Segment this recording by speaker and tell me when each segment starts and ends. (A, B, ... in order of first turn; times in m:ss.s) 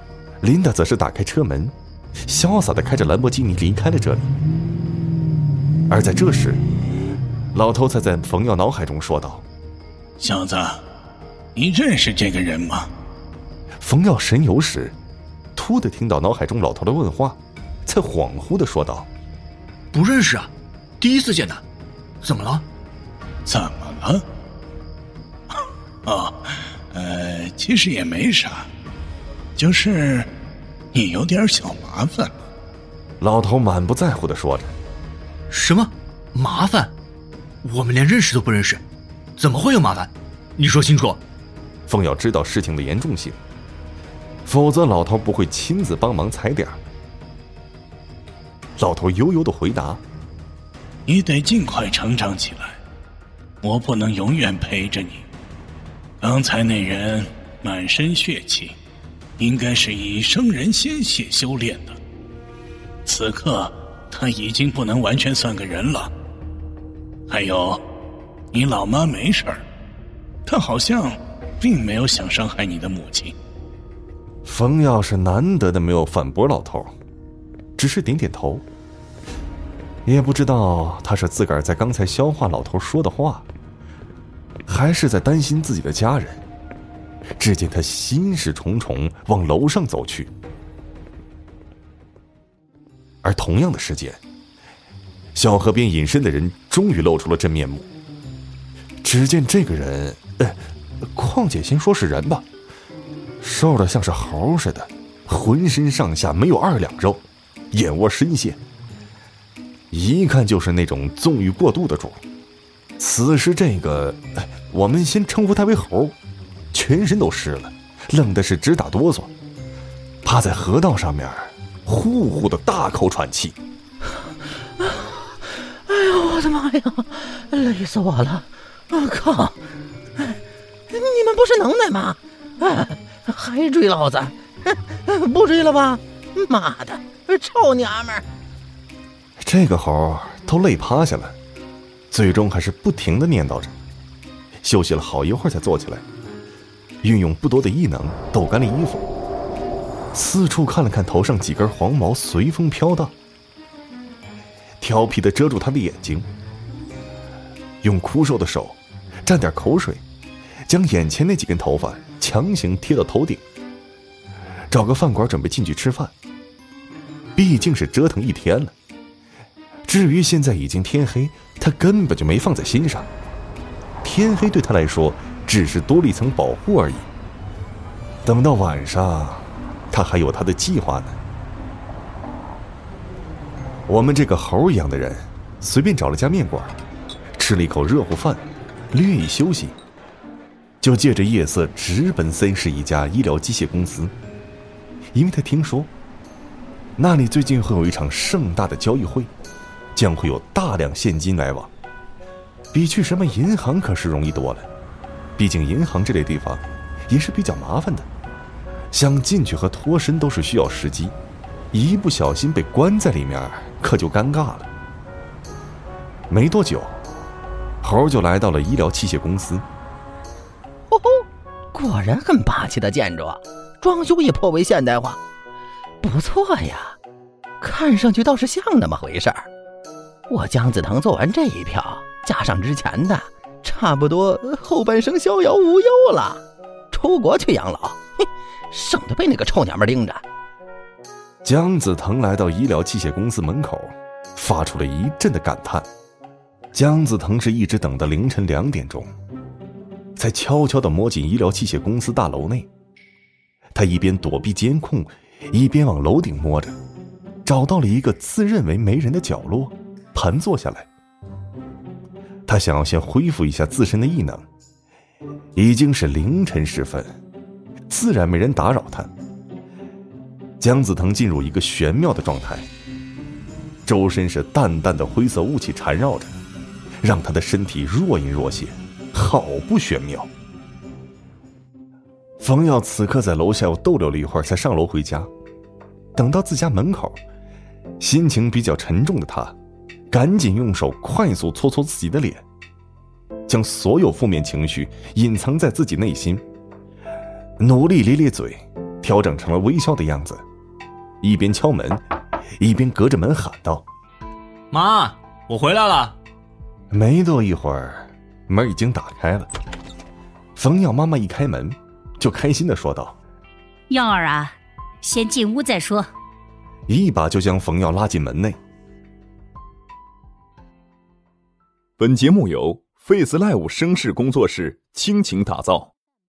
0:00.4-0:04.3 A
0:05.9-0:06.6 A
0:07.5-0:09.4 A
0:10.2-0:10.8 B
0:11.6-0:12.9 B
0:13.8-0:15.0 A
0:15.6-0:19.1 A
0:19.9-0:20.5 C
0:21.0-0:21.6 C
0:22.2-0:22.6 C
0:23.5-0:24.2 B
0:26.1-0:28.7 B
0:29.6-0:30.3 B
0:30.9-0:32.3 B
0:33.2-0:34.8 A
0:35.5-0:36.9 C
0:37.6-0:38.8 C
0:39.4-0:41.2 C
0:41.9-0:43.4 A
0:44.5-0:46.8 A
0:48.8-0:50.0 A
0:51.1-0:52.8 B
0:53.6-0:55.2 B
0:56.2-0:58.8 B
0:59.4-1:02.0 B
1:03.1-1:06.1 B
1:07.3-1:07.8 B
1:08.5-1:09.6 B
1:10.5-1:13.3 B
1:14.4-1:16.9 A
1:17.8-1:18.7 A
1:20.1-1:23.5 A
1:24.7-1:26.4 A
1:27.4-1:30.3 A
1:33.2-1:34.2 A
1:35.4-1:37.9 A
1:39.0-1:42.5 A
1:43.4-1:48.6 A
1:49.9-1:52.2 A
1:53.0-1:56.2 A
1:56.7-1:59.3 A
2:00.2-2:03.6 A
2:05.9-2:09.6 D
2:10.9-2:18.3 D
2:19.4-2:21.4 A
2:22.1-2:23.8 A
2:24.6-2:26.0 A
2:27.0-2:29.1 A
2:30.1-2:33.1 A
2:34.8-2:36.3 A
2:37.8-2:40.0 A
2:40.7-2:43.4 A
2:44.7-2:46.1 A
2:47.4-2:48.7 A
2:49.9-2:53.1 A
2:54.0-2:57.1 A
2:58.2-3:01.2 A
3:03.9-3:06.8 A
3:07.4-3:09.8 A
3:10.8-3:14.1 A
3:15.1-3:15.9 A
3:17.0-3:19.3 A
3:20.0-3:21.7 A
3:22.7-3:24.7 A
3:25.4-3:28.1 A
3:28.9-3:31.2 A
3:31.7-3:34.7 A
3:36.3-3:37.0 A
3:37.8-3:39.7 A
3:40.9-3:41.2 D
3:41.7-3:45.2 D
3:46.0-3:47.0 D
3:47.6-3:49.5 D
3:50.3-4:00.2 D
4:01.4-4:05.9 A
4:06.7-4:09.1 A
4:10.2-4:12.7 A
4:13.7-4:16.8 A
4:17.4-4:20.9 A
4:22.5-4:24.5 A
4:25.6-4:27.2 A
4:27.9-4:29.1 A
4:30.6-4:32.7 A
4:33.9-4:36.4 A
4:37.0-4:40.3 A
4:42.4-4:45.3 A
4:46.2-4:47.2 A
4:48.0-4:49.6 A
4:50.1-4:52.4 A
4:53.5-4:56.4 A
4:57.6-5:00.4 A
5:01.2-5:02.0 A
5:02.6-5:03.9 A
5:04.7-5:06.2 C
5:06.9-5:09.5 A
5:10.6-5:13.2 A
5:13.9-5:16.1 E
5:16.9-5:18.6 A
5:22.0-5:25.9 F